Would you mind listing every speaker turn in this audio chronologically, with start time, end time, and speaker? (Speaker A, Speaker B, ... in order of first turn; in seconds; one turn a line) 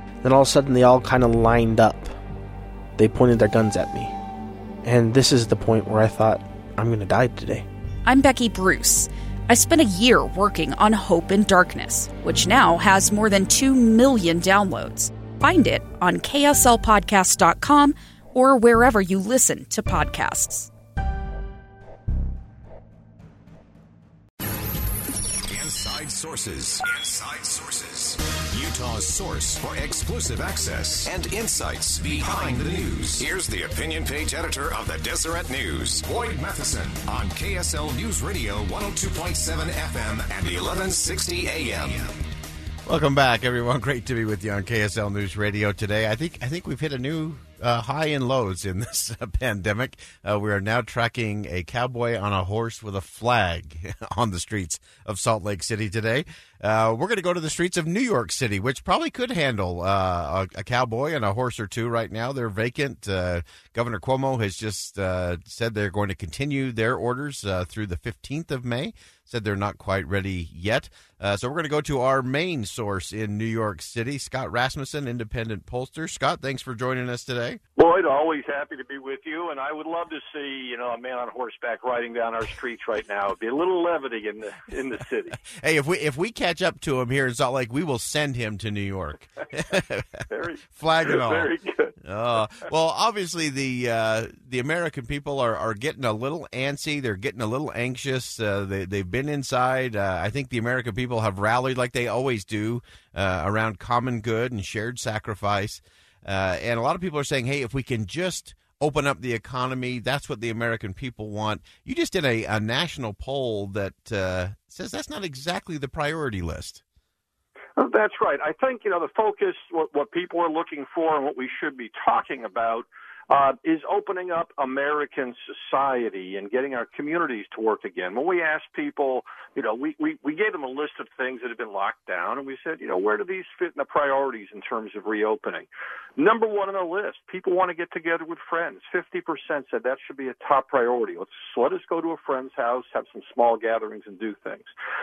Speaker A: 0.2-2.1
Speaker A: 3.0-4.1
Speaker A: 4.8-7.7
Speaker B: 8.1-20.7
Speaker C: 25.5-42.1
Speaker D: 42.9-77.6
Speaker E: 77.8-85.4
Speaker D: 85.5-91.5
Speaker E: 90.3-92.0
Speaker D: 92.0-116.8
Speaker E: 117.8-135.7
Speaker E: 136.2-144.7